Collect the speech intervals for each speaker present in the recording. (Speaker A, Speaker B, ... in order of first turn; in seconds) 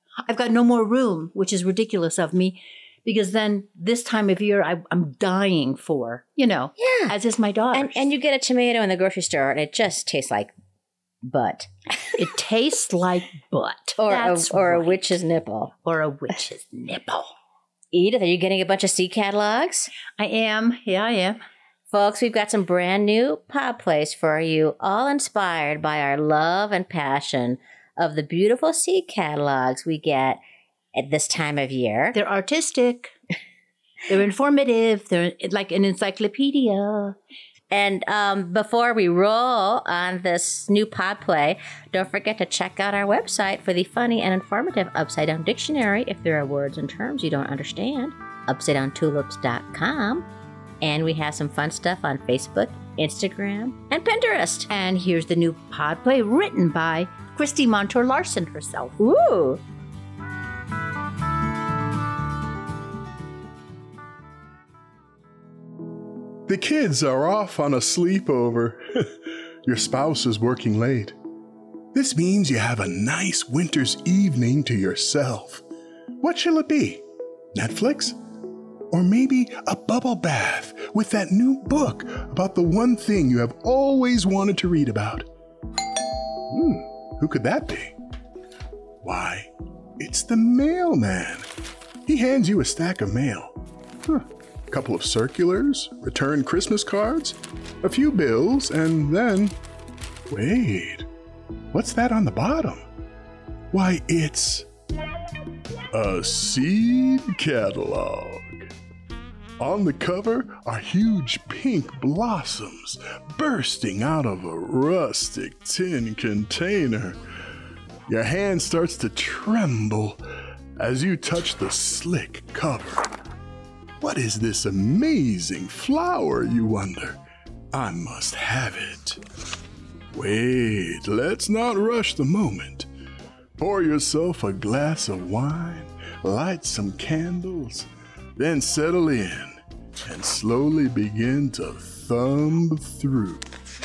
Speaker A: 0.2-8.1, 12.2-15.0, 15.8-17.3, 20.2-21.4, 32.1-33.1, 34.1-37.2, 54.7-59.0
Speaker B: 6.8-7.1, 7.7-10.5, 11.2-12.2, 14.0-15.7, 17.9-19.9, 21.9-30.4, 30.9-32.2, 37.7-50.3, 50.8-54.7, 59.0-59.6
Speaker C: 66.5-71.2, 71.9-75.6, 76.2-78.2, 78.9-85.3, 86.5-88.0, 89.0-91.5, 92.1-99.5, 100.3-101.1, 101.7-102.8, 103.7-104.7, 105.9-108.7, 109.6-117.2, 118.1-120.2, 120.8-123.1, 124.0-127.2, 127.7-129.2, 130.1-132.9, 133.6-143.5